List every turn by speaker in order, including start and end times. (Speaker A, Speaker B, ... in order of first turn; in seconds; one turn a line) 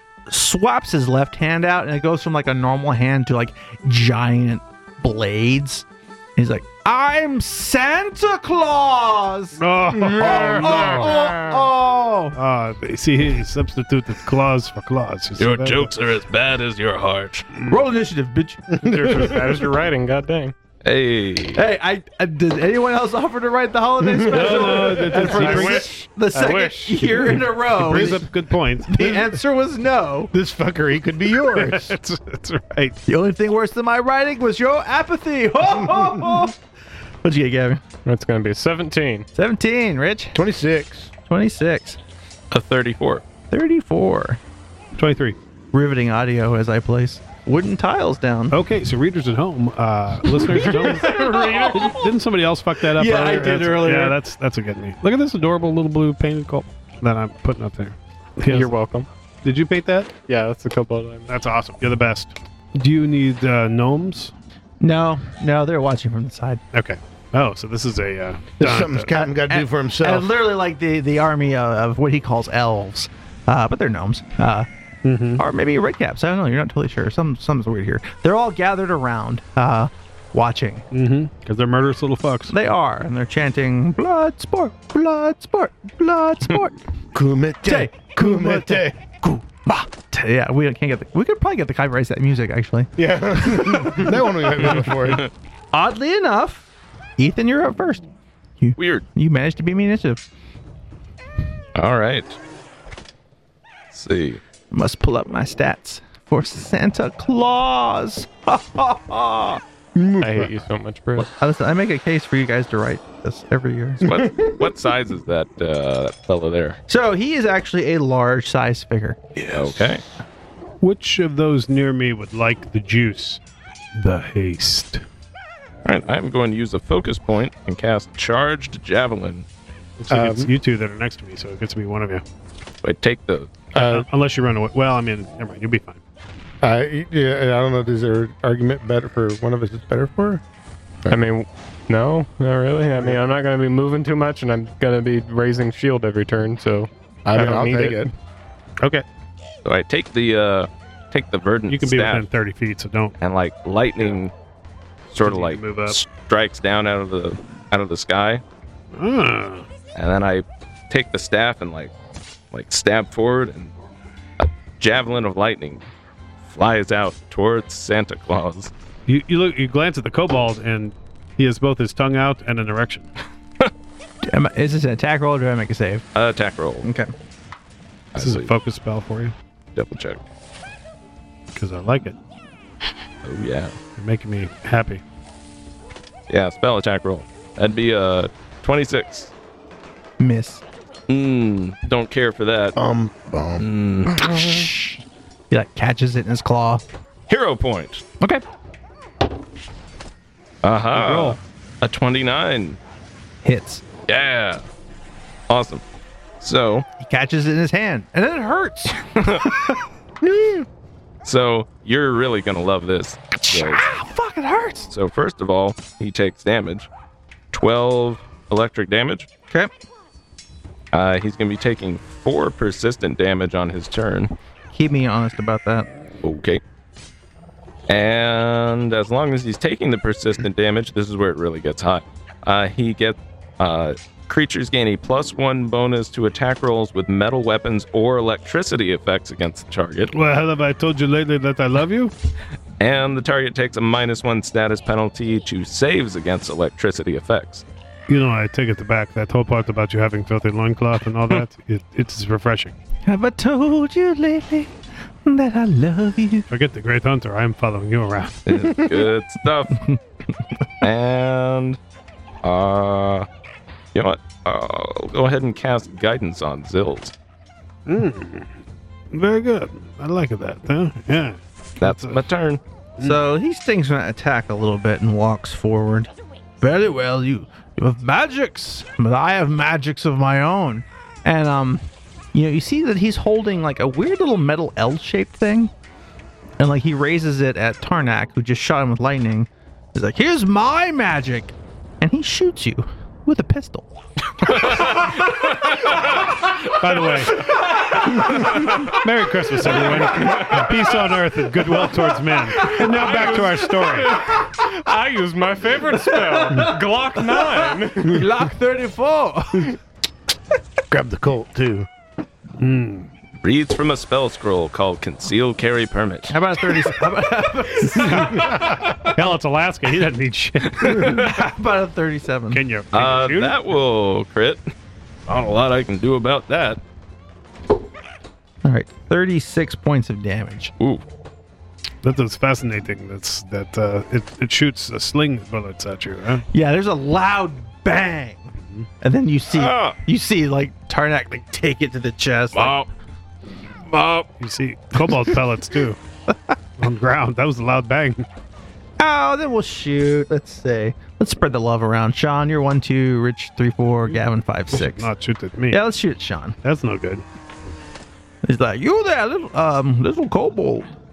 Speaker A: 0.3-12.4
Speaker B: 9.6-11.5
Speaker C: 9.9-11.2
Speaker B: 12.3-15.9
Speaker D: 15.4-17.5
Speaker A: 17.7-18.6
Speaker E: 18.8-20.6
Speaker C: 18.8-19.6
Speaker F: 20.8-21.6
Speaker A: 21.6-28.2
Speaker C: 24.0-25.4
Speaker B: 24.3-29.1
Speaker E: 25.2-26.9
Speaker C: 27.9-28.2
Speaker A: 28.9-30.3
Speaker C: 29.0-29.2
Speaker C: 30.3-31.9
Speaker B: 31.4-33.0
Speaker A: 33.1-36.5
Speaker A: 37.2-37.8
Speaker E: 38.0-39.3
Speaker A: 39.4-40.4
Speaker C: 40.3-41.1
Speaker A: 41.3-42.0
Speaker F: 42.5-43.2
Speaker A: 43.5-44.4
Speaker B: 45.0-45.4
Speaker A: 45.7-48.6
Speaker B: 48.5-58.7
Speaker A: 50.5-52.1
Speaker E: 50.5-51.9
Speaker A: 52.9-54.2
Speaker E: 58.5-59.1
Speaker B: 59.4-60.1
Speaker E: 60.3-61.3
Speaker B: 61.3-64.3
Speaker A: 64.8-66.6
Speaker B: 66.7-69.1
Speaker C: 68.6-70.3
Speaker A: 69.1-74.7
Speaker B: 75.0-75.4
Speaker A: 75.4-80.9
Speaker B: 80.9-82.6
Speaker A: 82.5-86.8
Speaker C: 87.1-89.0
Speaker A: 87.7-92.9
Speaker C: 93.0-95.3
Speaker A: 93.5-94.0
Speaker A: 95.7-96.7
Speaker A: 97.2-98.0
Speaker A: 98.6-100.2
Speaker F: 98.8-99.0
Speaker F: 101.8-102.4
Speaker F: 103.9-104.4
Speaker A: 104.7-109.6
Speaker C: 110.0-110.5
Speaker E: 110.2-111.3
Speaker A: 111.2-114.0
Speaker F: 114.0-116.8
Speaker C: 114.0-114.6
Speaker A: 116.9-119.2
Speaker F: 119.5-120.0
Speaker B: 120.8-123.4
Speaker B: 123.9-125.0
Speaker F: 125.8-129.5
Speaker B: 130.0-132.2
Speaker C: 130.1-130.5
Speaker F: 132.8-133.6
Speaker B: 133.7-136.0
Speaker C: 133.8-134.1
Speaker C: 136.6-140.4
Speaker E: 141.1-148.1
Speaker C: 147.3-148.1
Speaker B: 148.8-149.1
Speaker F: 149.7-152.2
Speaker B: 151.7-153.2
Speaker F: 153.2-154.3
Speaker F: 155.1-158.4
Speaker B: 155.2-156.0
Speaker B: 158.9-159.7
Speaker F: 159.9-161.9
Speaker F: 162.5-163.7
Speaker F: 164.4-165.9
Speaker F: 166.5-168.7
Speaker B: 169.1-173.1
Speaker A: 174.2-176.1
Speaker F: 176.2-176.9
Speaker A: 176.8-177.1
Speaker F: 178.1-178.5
Speaker B: 178.2-179.3
Speaker F: 179.8-180.2
Speaker B: 181.5-182.2
Speaker F: 183.2-183.8
Speaker B: 184.0-185.0
Speaker F: 186.3-189.3
Speaker A: 190.2-190.6
Speaker F: 191.1-192.8
Speaker C: 192.8-193.7
Speaker F: 193.6-194.3
Speaker A: 194.3-195.0
Speaker A: 195.5-196.8
Speaker F: 197.3-198.0
Speaker F: 200.6-202.8
Speaker B: 201.0-201.4
Speaker A: 203.4-203.8
Speaker F: 204.1-204.6
Speaker F: 205.5-205.8
Speaker F: 206.4-206.8
Speaker A: 207.0-209.5
Speaker F: 209.2-209.4
Speaker C: 210.2-210.6
Speaker F: 211.2-213.9
Speaker A: 213.4-214.9
Speaker F: 214.9-216.9
Speaker F: 217.5-219.3
Speaker F: 220.9-224.3
Speaker A: 224.7-225.9
Speaker F: 226.2-226.6
Speaker F: 227.9-240.1
Speaker B: 240.1-242.1
Speaker F: 242.8-247.6
Speaker B: 248.1-252.7
Speaker A: 253.1-254.7
Speaker A: 255.2-256.5
Speaker B: 256.5-258.4
Speaker F: 258.5-259.9
Speaker F: 260.8-261.8
Speaker F: 262.4-263.3
Speaker F: 263.9-267.1
Speaker B: 267.9-268.5
Speaker B: 269.1-272.2
Speaker F: 271.8-272.6
Speaker A: 273.0-285.7
Speaker A: 286.6-293.9
Speaker A: 294.6-294.8
Speaker B: 296.8-297.4
Speaker A: 297.9-298.3
Speaker B: 298.6-304.2
Speaker E: 299.9-300.6
Speaker E: 302.6-308.2
Speaker A: 305.9-309.8
Speaker C: 310.9-311.9
Speaker B: 312.6-313.1
Speaker F: 313.4-316.9
Speaker A: 316.3-318.6
Speaker B: 318.0-321.3
Speaker A: 320.8-322.6
Speaker B: 322.5-323.6
Speaker F: 322.9-324.6
Speaker F: 325.3-326.8
Speaker A: 328.6-330.7
Speaker B: 332.0-336.4
Speaker A: 336.5-342.8
Speaker F: 339.5-340.0
Speaker D: 342.5-342.9
Speaker D: 343.9-344.3
Speaker B: 344.4-346.0
Speaker B: 346.8-348.2
Speaker A: 349.0-355.1
Speaker B: 354.7-355.8
Speaker A: 355.7-356.6
Speaker B: 356.6-357.2
Speaker A: 358.4-360.9